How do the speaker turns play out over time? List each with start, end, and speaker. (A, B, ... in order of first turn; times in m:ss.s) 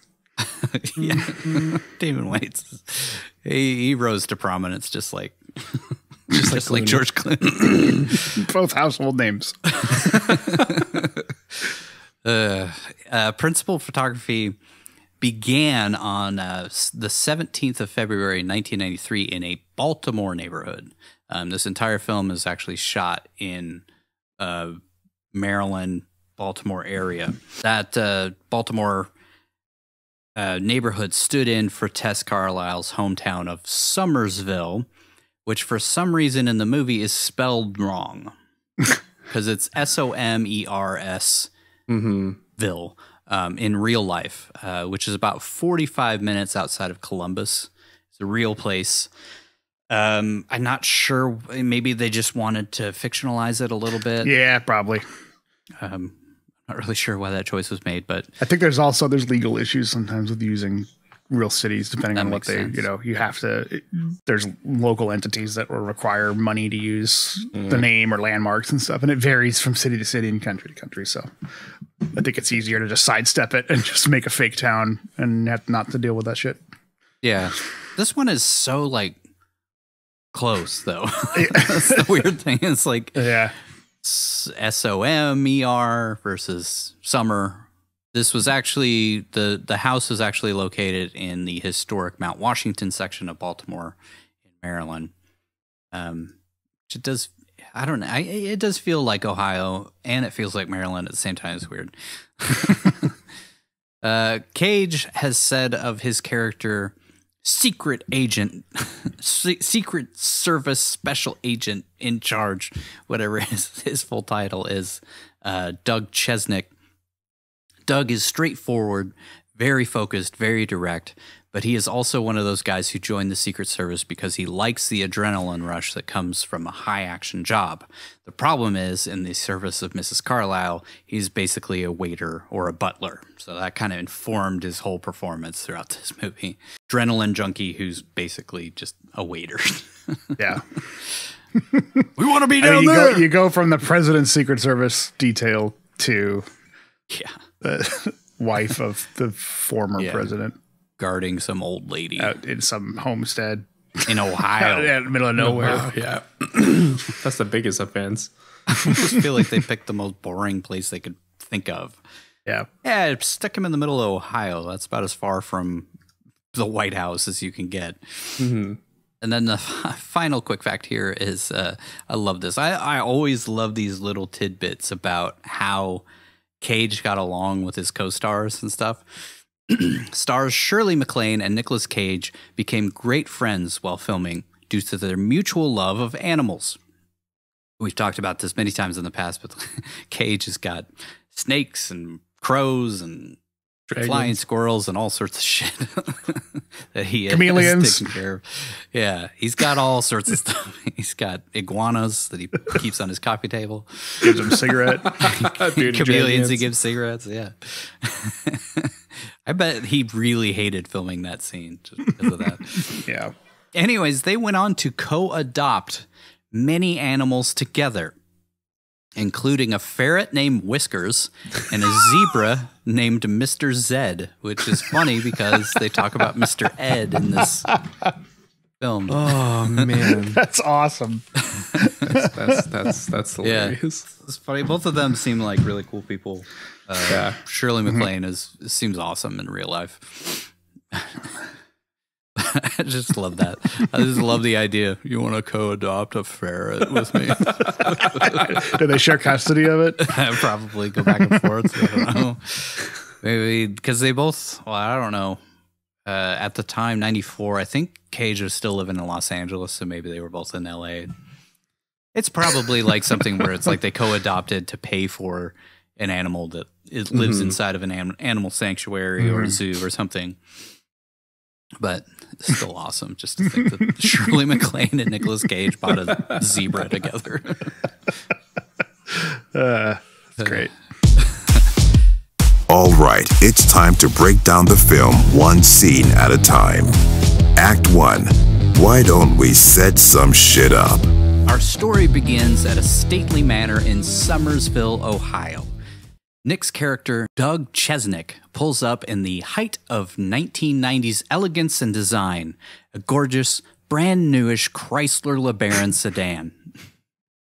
0:00.6-0:08.3 A
0:06.3-0:07.0 B
0:08.2-0:10.4 B
0:10.0-0:11.2 A
0:12.2-0:14.6 A
0:15.2-0:23.8 A
0:24.4-0:24.8 A
0:25.3-0:29.1 A
0:30.4-0:34.9 A
0:35.4-0:38.3 A
0:39.3-0:41.5 A
0:41.9-0:42.4 C
0:42.6-0:49.1 A
0:49.9-0:54.3 A
0:54.2-0:55.0 B
0:55.8-0:56.1 A
0:56.7-0:58.3 A
0:58.4-1:11.3 B
1:02.1-1:02.8 A
1:12.1-1:16.6 B
1:17.2-1:19.2 A
1:20.3-1:23.3 A
1:21.3-1:22.1 B
1:23.2-1:23.5 B
1:24.0-1:34.0 A
1:34.5-1:35.1 A
1:35.9-1:36.3 A
1:36.9-1:43.1 A
1:44.0-1:56.7 A
1:57.9-2:20.4 A
2:20.4-2:20.6 B
2:21.6-2:26.4 B
2:22.2-2:23.3 A
2:27.1-2:27.4 A
2:27.6-2:30.6 B
2:30.0-2:30.2 A
2:31.0-2:32.3 A
2:32.2-2:35.9 B
2:34.1-2:34.9 A
2:35.4-2:38.3 C
2:38.8-2:42.0 A
2:42.8-2:45.9 A
2:46.5-2:48.5 A
2:48.4-2:48.8 C
2:49.2-2:56.0 A
2:56.6-3:06.8 A
3:07.8-3:13.4 A
3:13.9-3:14.3 C
3:14.0-3:24.3 A
3:17.3-3:18.0 B
3:24.2-3:25.1 B
3:25.0-3:26.7 C
3:25.2-3:28.9 A
3:29.4-3:33.0 A
3:32.9-3:33.3 B
3:33.7-3:38.1 A
3:39.2-3:47.8 A
3:48.8-3:49.9 A
3:49.1-3:50.4 C
3:50.2-3:51.2 B
3:51.8-3:52.3 B
3:52.0-3:54.1 C
3:53.4-4:01.3 A
3:57.1-3:57.4 C
4:02.4-4:08.6 A
4:08.2-4:10.2 B
4:10.0-4:15.4 A
4:16.0-4:21.1 A
4:22.1-4:30.4 A
4:27.1-4:27.6 C
4:29.2-4:29.5 B
4:31.8-4:37.7 A
4:39.1-4:40.7 B
4:42.7-4:46.9 D
4:47.5-4:51.0 D
4:51.4-4:55.7 A
4:56.4-5:06.5 A